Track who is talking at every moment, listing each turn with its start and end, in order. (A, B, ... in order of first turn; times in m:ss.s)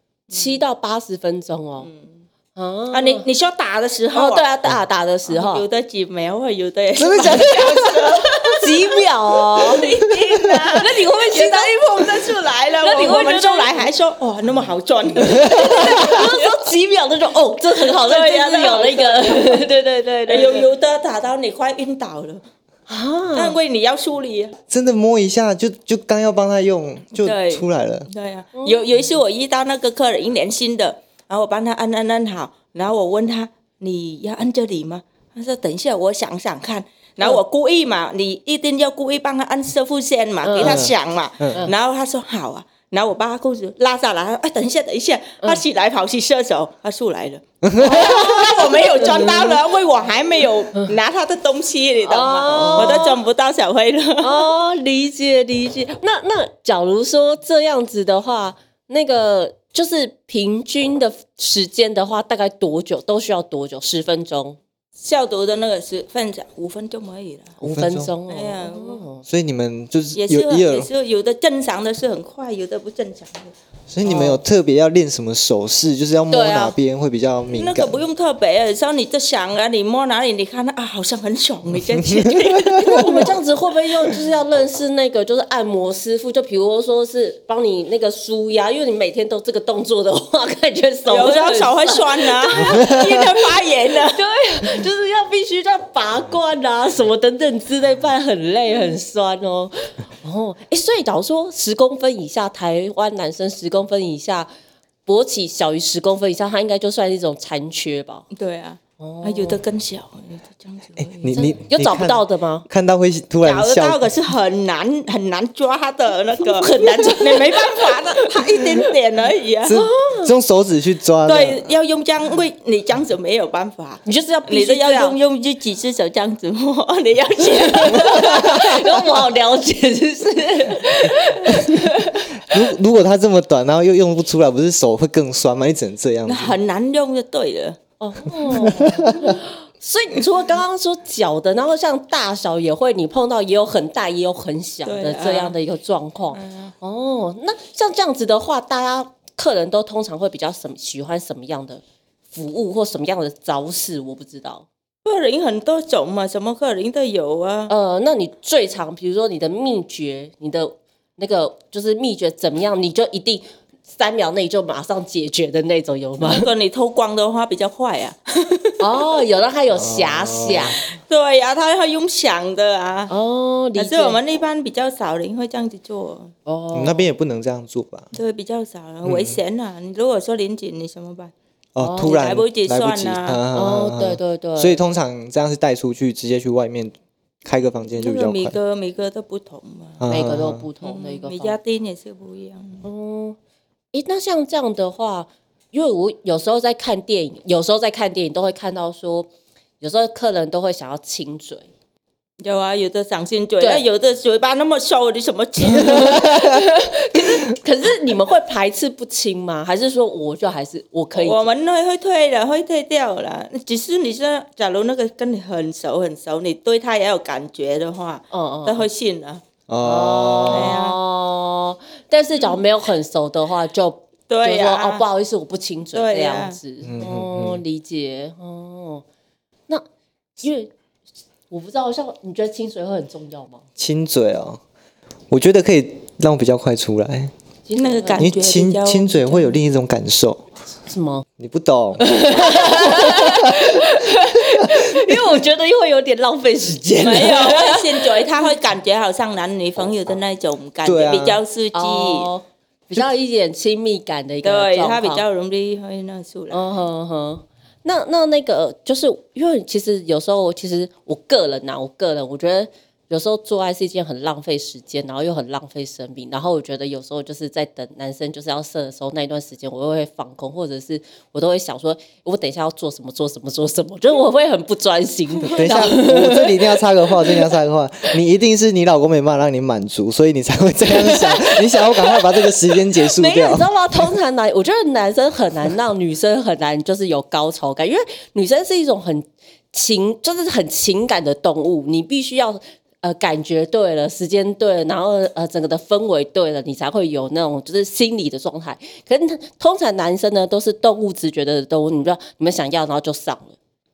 0:00.3-0:01.9 A
0:01.8-0:02.2 B
0:02.6-0:03.2 A
0:02.9-0:04.5 B
0:04.1-0:05.6 A
0:05.2-0:16.5 B
0:07.0-0:08.0 C
0:07.2-0:07.6 A
0:08.6-0:09.9 A
0:10.3-0:10.6 C
0:10.7-0:13.8 A
0:15.4-0:20.6 A
0:17.8-0:19.6 B
0:20.3-0:22.4 B
0:22.9-0:23.6 A
0:23.3-0:24.6 B
0:24.7-0:28.1 C
0:27.2-0:54.4 B
0:28.5-0:28.8 A
0:40.4-0:40.9 A
0:40.6-0:41.7 C
0:47.6-0:48.6 C
0:47.9-0:49.6 A
0:52.0-0:53.2 A
0:52.5-0:52.9 C
0:54.2-1:04.6 A
1:05.0-1:07.6 B
1:07.6-1:09.2 A
1:07.6-1:08.1 C
1:08.3-1:09.0 B
1:09.2-1:10.9 C
1:10.1-1:13.5 B
1:13.9-1:18.0 C
1:14.0-1:14.4 A
1:16.3-1:16.8 A
1:17.5-1:23.3 B
1:22.2-1:23.2 C
1:22.8-1:33.2 A
1:31.0-1:34.2 B
1:32.6-1:33.0 C
1:34.0-1:44.5 A
1:45.1-1:48.3 A
1:48.3-1:51.4 B
1:49.0-1:49.6 A
1:51.0-1:54.0 C
1:51.3-1:52.7 A
1:53.4-1:59.8 B
1:56.4-1:58.0 A
1:59.6-2:01.7 C
1:59.7-2:00.3 A
2:01.2-2:08.6 B
2:04.0-2:05.2 A
2:07.6-2:12.6 A
2:08.2-2:08.7 C
2:12.4-2:16.6 C
2:16.2-2:17.8 B
2:18.0-2:31.8 A
2:18.4-2:19.4 C
2:24.8-2:25.6 B
2:26.3-2:26.7 B
2:32.3-2:34.6 A
2:35.0-2:37.7 B
2:37.7-2:46.5 A
2:46.2-2:48.9 B
2:48.8-2:50.8 A
2:49.7-2:50.8 C
2:51.0-2:53.1 B
2:53.1-2:54.2 A
2:53.8-2:56.3 B
2:56.4-2:57.1 A
2:56.7-2:58.1 C
2:58.1-3:01.3 B
2:59.0-2:59.4 C
3:01.7-3:08.6 C
3:01.8-3:02.2 A
3:02.0-3:03.4 B
3:03.5-3:04.8 A
3:07.9-3:10.0 B
3:10.0-3:10.7 C
3:10.1-3:11.6 A
3:10.8-3:12.8 B
3:12.8-3:13.4 A
3:13.9-3:19.3 A
3:19.8-3:21.7 A
3:22.4-3:26.5 B
3:23.6-3:23.8 A
3:25.6-3:31.5 A
3:31.1-3:39.4 B
3:38.3-3:38.8 A
3:39.7-3:40.8 C
3:39.8-3:49.0 A
3:40.5-3:41.0 B
3:44.3-3:45.0 B
3:45.9-3:46.6 B
3:46.8-3:47.6 C
3:50.4-3:50.7 A
3:51.5-3:53.6 A
3:53.8-3:54.6 C
3:55.3-3:57.3 C
3:57.7-3:58.2 A
3:57.7-3:59.6 B
3:58.2-4:00.4 C
4:00.8-4:01.2 A
4:01.4-4:02.1 C
4:02.0-4:07.9 A
4:02.7-4:03.6 C
4:07.0-4:12.3 B
4:10.8-4:11.4 C
4:11.7-4:15.2 A
4:14.4-4:16.7 B
4:16.5-4:37.6 A
4:35.4-4:43.7 C
4:40.9-5:03.6 A